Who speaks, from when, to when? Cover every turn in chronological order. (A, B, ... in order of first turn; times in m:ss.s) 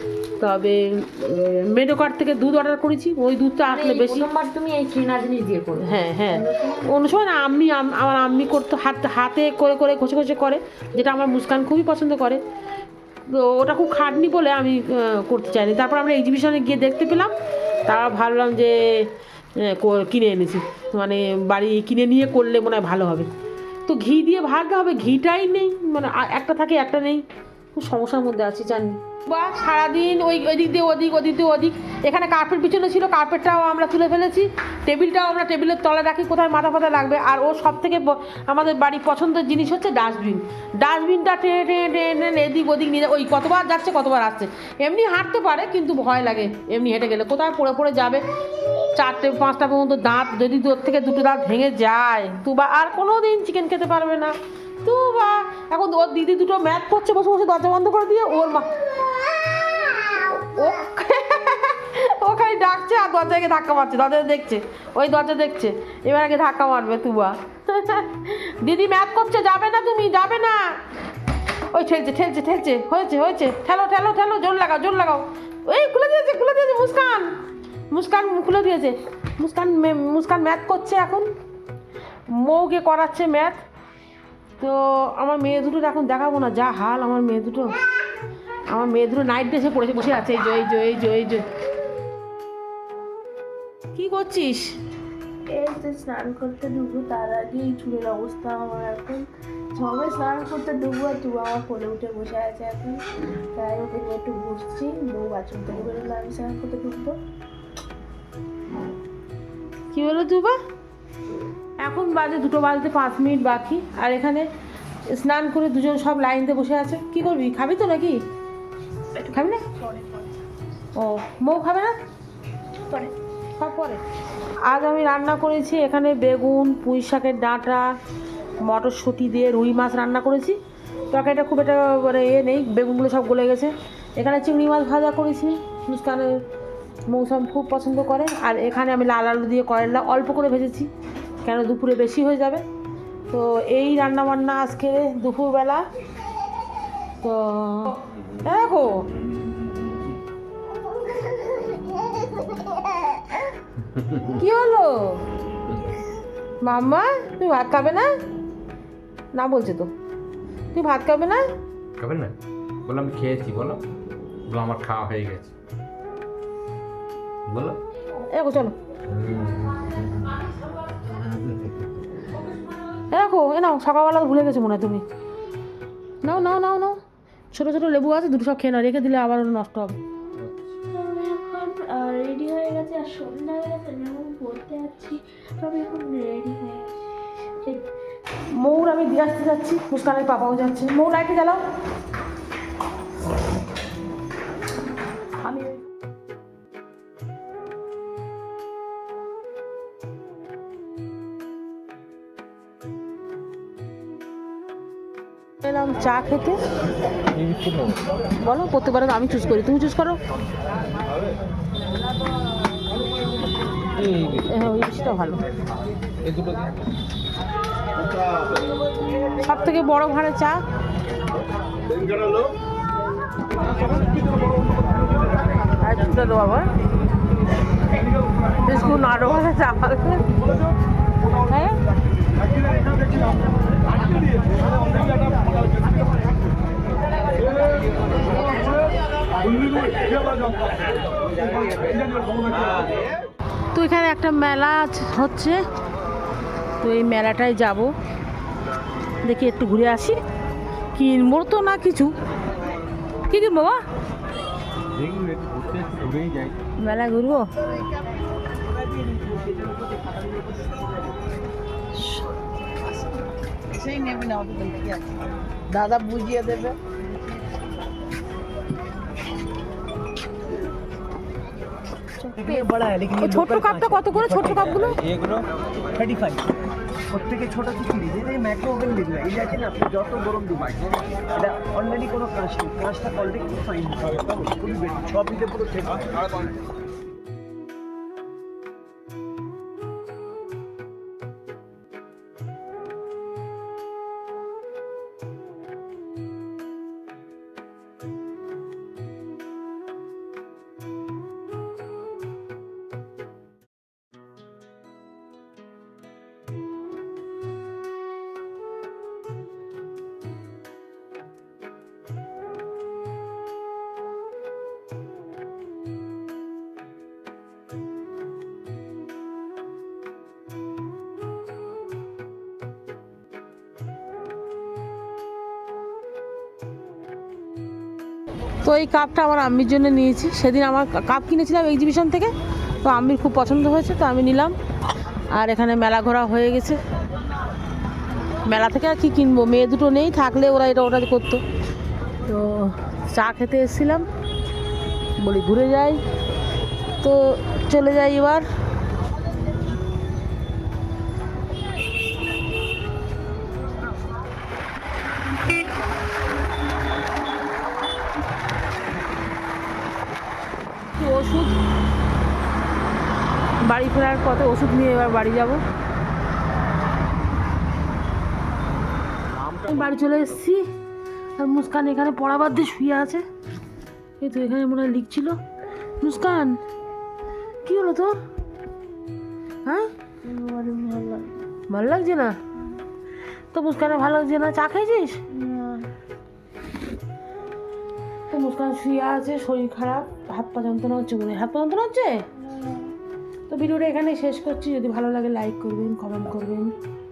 0:00.4-0:04.3 A
0:03.7-0:07.1 B
0:05.8-0:12.4 A
0:13.3-0:17.3 A
0:17.8-0:19.1 A
0:19.6-0:23.3 A
0:23.9-0:48.2 A
0:49.0-0:58.8 A
0:59.3-1:10.8 A
1:11.7-1:17.3 A
1:17.9-1:21.3 A
1:22.3-1:23.6 A
1:24.6-1:27.8 A
1:28.7-1:31.4 A
1:33.9-1:34.8 A
1:35.5-1:47.2 C
1:49.9-1:50.6 A
1:51.8-1:54.5 A
1:55.1-1:58.2 A
1:59.2-2:00.3 C
1:59.3-1:59.6 A
2:01.0-2:01.9 A
2:02.9-2:03.1 C
2:03.6-2:04.0 A
2:04.6-2:07.9 A
2:08.6-2:10.6 A
2:11.1-2:16.4 A
2:17.1-2:20.9 A
2:21.4-2:22.6 A
2:23.3-2:25.8 A
2:27.2-2:29.0 A
2:33.9-2:34.4 D
2:34.3-2:35.2 A
2:36.6-2:38.1 A
2:39.3-2:39.9 A
2:40.7-2:41.5 A
2:42.0-2:42.3 D
2:42.9-2:43.8 D
2:44.5-2:45.5 D
2:47.5-2:47.8 D
2:48.3-2:48.8 A
2:49.1-2:50.4 D
2:51.0-2:51.8 D
2:53.1-2:55.0 A
2:56.2-2:57.0 A
2:57.5-3:00.0 A
3:00.4-3:00.7 D
3:00.9-3:07.8 C
3:08.6-3:11.6 A
3:25.6-3:26.6 A
3:27.3-3:28.0 D
3:28.4-3:30.2 A
3:34.0-3:34.4 D
3:34.4-3:35.4 A
3:36.2-3:36.7 D
3:39.4-3:40.6 A
3:45.8-3:46.7 A
3:48.6-3:50.4 A
3:51.4-3:51.8 A
4:03.7-4:05.6 A
4:06.8-4:07.9 A
4:09.2-4:10.2 A
4:11.0-4:12.1 A
4:13.3-4:13.8 A
4:15.0-4:16.6 D
4:16.8-4:17.5 A
4:19.1-4:19.7 E
4:23.8-4:25.0 E
4:25.7-4:26.8 E
4:32.2-4:35.0 A
4:32.4-4:35.4 E
4:36.0-4:36.5 E
4:37.1-4:46.4 E
5:28.6-5:34.6 A
5:35.3-5:36.8 A
5:38.5-5:41.4 A
5:42.2-5:44.0 A
5:45.2-5:46.0 A
5:47.0-5:48.4 A
6:00.9-6:01.6 A
6:03.6-6:05.6 A
6:09.5-6:10.6 A
6:11.4-6:13.2 A
6:14.2-6:15.4 A
6:16.0-6:16.6 A
6:17.6-6:18.2 A
6:20.2-6:21.4 C
6:21.7-6:22.4 A
6:23.5-6:25.2 A
6:25.3-6:25.9 C
6:28.3-6:32.3 A
6:32.6-6:32.9 C
6:33.5-6:36.7 A